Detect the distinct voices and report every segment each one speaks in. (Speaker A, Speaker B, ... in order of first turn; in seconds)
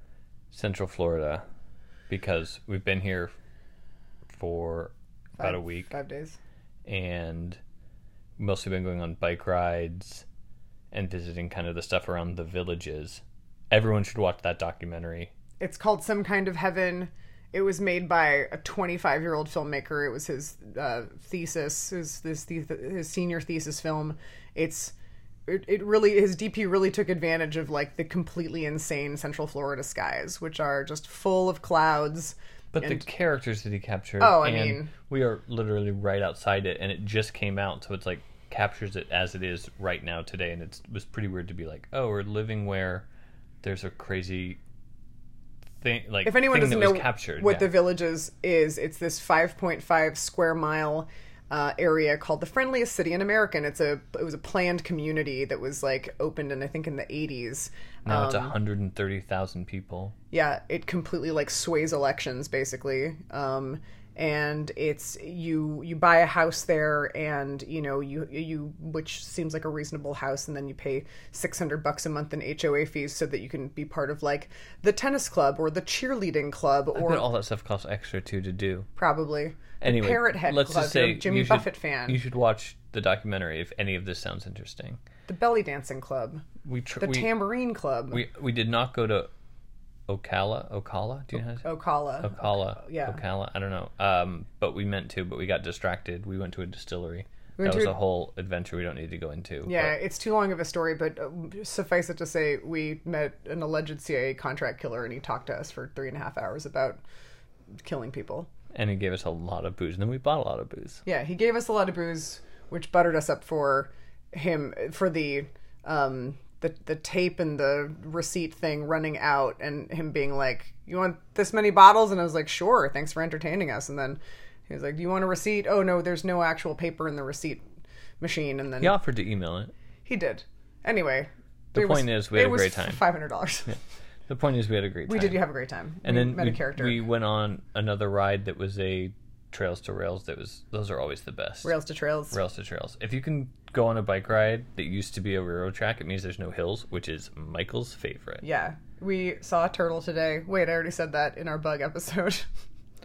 Speaker A: 0.5-1.4, 2.1-3.3, 4.3-5.9, 6.9-7.6, 8.4-10.2, 10.9-15.3, 32.7-43.1, 43.6-44.6, 45.8-47.8, 58.1-60.1, 77.0-78.9, 79.8-85.0, 86.6-87.5, 88.1-89.3, 90.1-91.7, 92.2-100.0, 108.8-111.0, 128.8-129.7, 131.7-133.0, 134.3-135.4, 136.0-141.7, 142.3-148.4
Speaker B: 5.4-6.4, 15.6-24.9, 25.5-33.0, 34.2-34.9, 46.2-58.5, 60.3-77.3, 79.0-82.2, 85.3-86.5, 87.0-88.2, 91.6-93.2, 97.6-98.0, 99.7-107.0, 107.8-108.5, 111.0-127.6, 128.2-129.0, 130.1-133.8, 135.1-137.0, 141.6-142.4, 148.4-152.5